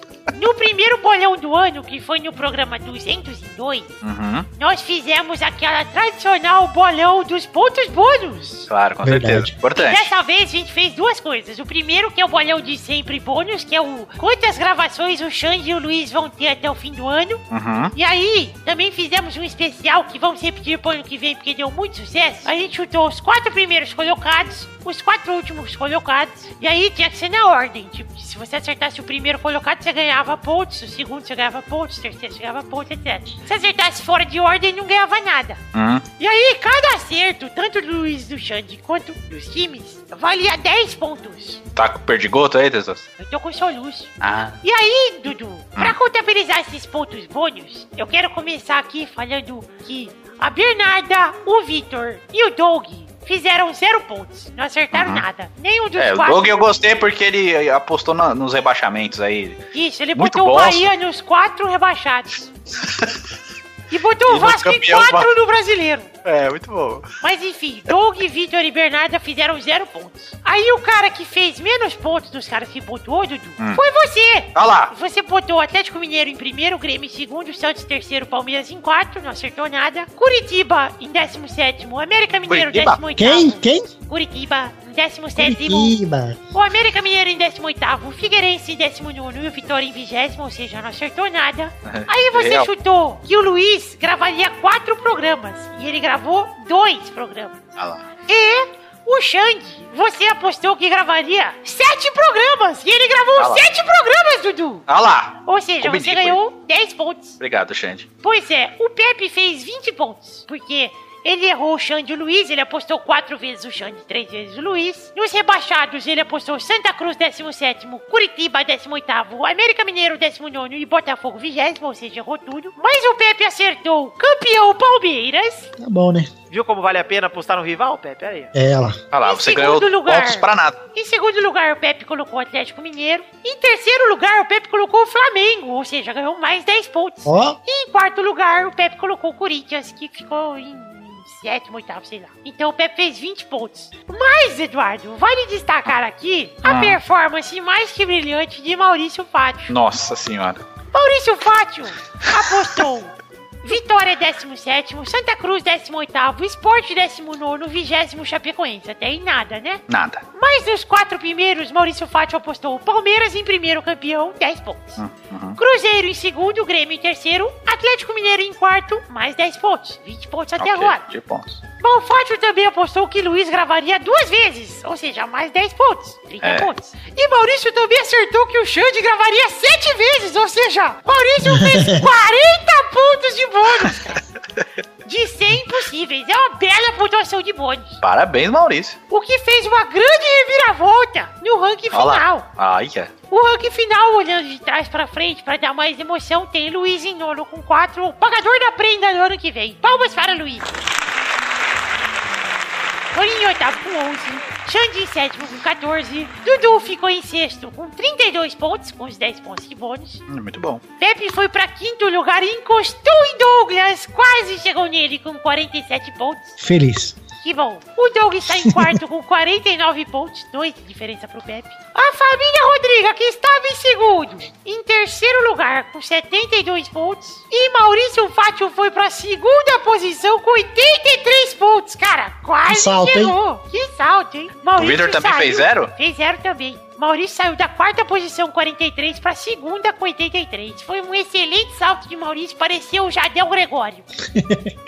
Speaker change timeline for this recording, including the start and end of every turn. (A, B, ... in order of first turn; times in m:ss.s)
0:00.3-0:03.9 A
0:04.0-0:04.5 B
0:04.6-0:08.7 A
0:08.7-0:10.1 B
0:09.0-0:09.5 C
0:09.7-0:17.4 A
0:17.5-0:17.9 B
0:17.9-0:35.6 A
0:35.7-0:36.0 B
0:36.2-0:41.6 A
0:41.8-0:43.0 B
0:43.2-0:44.1 A
0:44.2-0:44.6 B
0:44.6-0:56.7 A
0:54.9-0:55.2 B
0:56.0-0:59.6 B
0:59.7-1:02.5 A
1:00.2-1:00.9 B
1:02.8-1:03.2 B
1:03.9-1:06.1 A
1:04.3-1:05.3 B
1:06.2-1:07.1 B
1:07.2-1:25.9 A
1:14.5-1:14.9 B
1:22.5-1:23.0 B
1:23.2-1:23.9 C
1:25.4-1:26.4 C
1:26.5-1:37.6 A
1:31.8-1:32.7 B
1:37.8-1:38.0 B
1:38.3-1:44.8 A
1:43.4-1:43.6 B
1:44.9-1:46.4 B
1:45.4-1:47.4 A
1:47.4-1:48.1 B
1:48.2-2:05.7 A
2:05.8-2:06.3 C
2:06.5-2:08.5 D
2:08.5-2:09.0 C
2:09.1-2:10.8 B
2:09.2-2:29.7 A
2:17.2-2:17.6 C
2:26.6-2:27.0 B
2:29.7-2:30.6 B
2:30.9-2:39.8 A
2:39.9-2:40.2 B
2:40.3-2:45.0 A
2:45.0-2:45.6 B
2:45.6-2:51.0 A
2:50.6-2:51.6 B
2:51.8-3:04.2 A
2:56.4-2:56.7 B
3:01.4-3:02.0 C
3:05.0-3:08.0 A
3:08.0-3:09.0 B
3:09.1-3:12.5 A
3:11.9-3:13.1 B
3:13.3-3:20.7 A
3:23.1-3:30.2 A
3:30.3-3:30.8 B
3:31.0-3:36.6 A
3:36.6-3:37.2 C
3:37.4-4:04.0 A
3:38.6-3:38.9 C
3:52.7-3:53.4 C
3:54.8-3:55.9 B
4:04.3-4:04.7 C